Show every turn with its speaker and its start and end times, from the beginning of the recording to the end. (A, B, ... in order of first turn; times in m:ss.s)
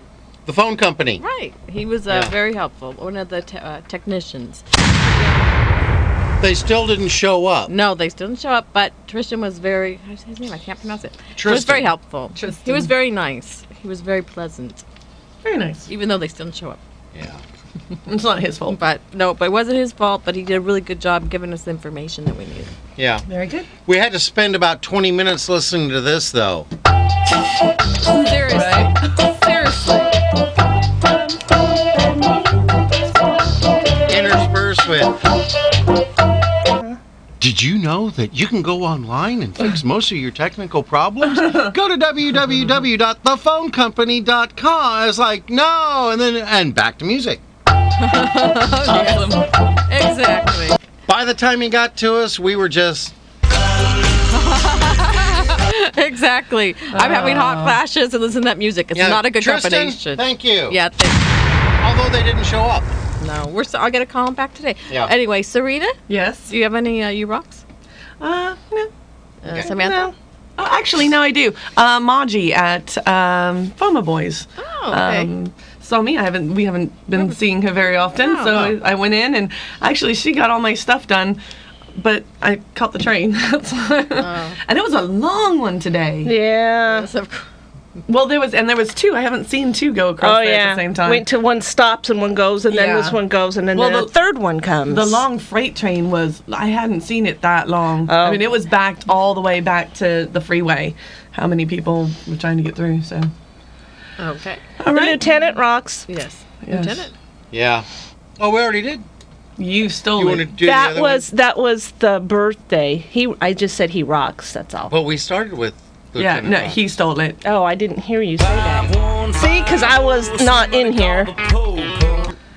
0:00.4-0:01.2 A
0:01.2-0:05.5 B
0:02.1-0:02.3 A
0:06.4-0:07.7 A
0:07.7-0:14.8 B
0:11.4-0:11.9 A
0:12.4-0:12.9 C
0:15.4-0:15.9 C
0:15.9-0:16.8 B
0:17.1-0:17.4 A
0:18.1-0:18.8 C
0:18.7-0:22.7 B
0:23.0-0:23.2 A
0:23.3-0:23.7 C
0:23.8-0:26.7 A
0:28.1-0:30.1 B
0:28.2-0:29.0 C
0:34.0-0:35.2 A
0:37.4-0:47.4 A
0:48.0-0:49.4 B
0:48.8-0:49.4 C
0:49.9-0:50.8 B
0:51.1-0:53.1 A
0:54.3-1:01.4 B
0:56.9-0:57.8 C
0:58.9-1:00.8 A
1:01.8-1:02.9 A
1:03.2-1:06.0 B
1:06.1-1:06.5 C
1:06.5-1:07.6 B
1:08.2-1:08.9 C
1:09.4-1:10.1 B
1:09.7-1:10.1 D
1:10.6-1:21.4 C
1:14.6-1:15.3 B
1:18.1-1:18.7 B
1:21.9-1:26.3 C
1:24.2-1:24.6 B
1:26.2-1:27.1 D
1:26.9-1:27.4 B
1:28.1-1:31.3 C
1:30.2-1:35.2 D
1:32.7-1:33.2 C
1:33.7-1:34.1 C
1:34.9-1:43.3 C
1:38.0-1:38.5 D
1:44.2-1:44.6 B
1:44.8-1:45.2 C
1:44.9-1:46.0 D
1:46.1-1:47.1 B
1:46.6-1:47.0 C
1:47.5-1:47.8 A
1:48.4-1:49.0 A
1:49.6-1:50.5 C
1:50.1-1:51.3 A
1:50.6-1:54.9 D
1:54.9-1:56.8 A
1:56.2-1:57.4 C
1:57.4-2:01.4 D
1:58.4-2:02.3 E